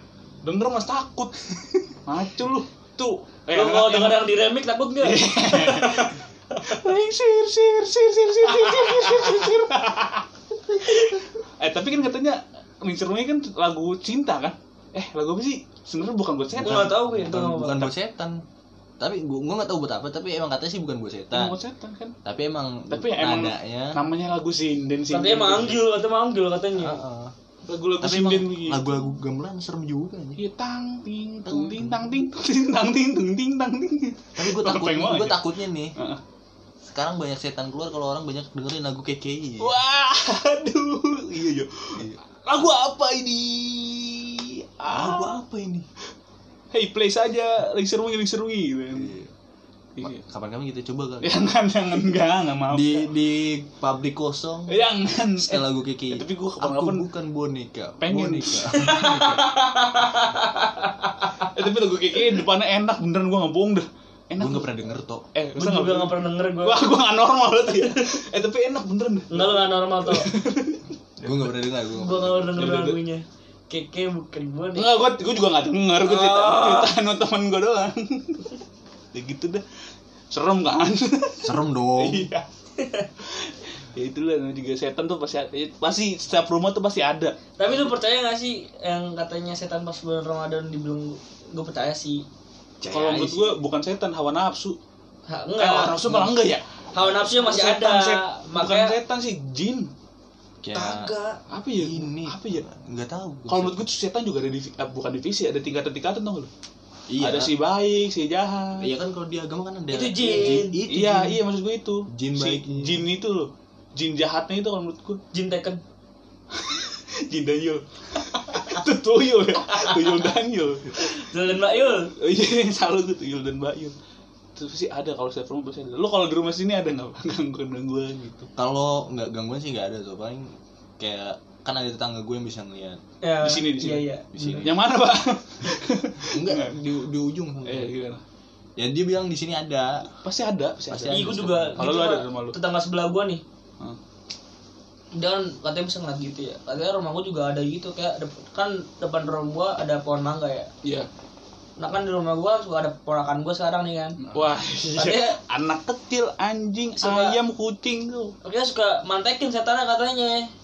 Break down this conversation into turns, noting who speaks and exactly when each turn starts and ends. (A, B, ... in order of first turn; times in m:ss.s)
0:00.4-0:04.3 A
0:03.5-0:06.7 B
0:05.0-0:10.2 A
0:08.5-0:09.5 B
0:10.8-0:16.9 A
0:10.8-0:11.2 B
0:16.6-0:18.4 C
0:16.6-0:17.9 B
0:19.0-0:21.6 C
0:21.3-0:22.2 A
0:22.2-0:24.0 C
0:22.9-0:25.8 A
0:25.1-0:27.0 B
0:26.7-0:27.3 C
0:27.6-0:29.0 A
0:28.0-0:30.4 C
0:30.4-0:36.2 A
0:31.4-0:32.1 C
0:34.4-0:36.0 C
0:36.8-0:39.8 C
0:39.6-0:45.4 A
0:41.9-0:42.2 C
0:44.8-0:45.9 C
0:46.7-0:49.1 A
0:48.9-0:49.3 C
0:50.0-0:50.2 A
0:50.0-0:51.4 C
0:51.2-0:53.1 A
0:52.7-0:54.8 C
0:54.7-0:57.0 A
0:55.4-0:59.4 C
0:58.0-0:59.1 A
0:58.7-1:01.5 B
1:01.4-1:04.7 A
1:04.4-1:05.2 C
1:05.3-1:11.6 A
1:05.6-1:06.9 B
1:07.7-1:08.0 B
1:09.3-1:10.3 B
1:11.2-1:12.6 C
1:11.9-1:15.0 B
1:12.5-1:13.0 A
1:14.7-1:18.4 A
1:16.0-1:16.9 B
1:19.1-1:19.6 A
1:20.3-1:22.4 A
1:21.4-1:22.3 C
1:22.8-1:23.1 B
1:23.2-1:27.4 A
1:27.6-1:32.2 B
1:32.8-1:33.6 C
1:32.9-1:34.8 A
1:35.3-1:36.2 B
1:35.6-1:39.9 A
1:36.9-1:39.0 B
1:40.6-1:41.1 C
1:40.7-1:41.4 B
1:41.5-1:42.6 A
1:41.7-1:43.8 C
1:43.5-1:46.5 A
1:47.1-1:47.5 C
1:47.2-1:48.9 A
1:48.8-1:51.4 C
1:49.9-1:50.8 B
1:50.9-1:55.2 A
1:52.1-1:53.1 C
1:55.3-1:55.8 B
1:56.5-2:01.0 A
1:59.8-2:00.3 B
2:00.9-2:02.1 B
2:02.2-2:04.0 A
2:04.6-2:08.5 A
2:08.6-2:13.0 C
2:13.2-2:14.6 B
2:13.4-2:16.8 A
2:14.3-2:14.8 C
2:16.3-2:17.9 C
2:17.6-2:18.2 A
2:18.8-2:20.0 C
2:20.2-2:22.6 A
2:20.9-2:21.8 C
2:21.1-2:23.4 B
2:25.1-2:30.7 B
2:30.8-2:31.1 A
2:31.8-2:34.2 B
2:34.2-2:38.3 A
2:34.3-2:34.5 C
2:34.8-2:35.4 B
2:37.0-2:37.4 B
2:38.4-2:40.5 B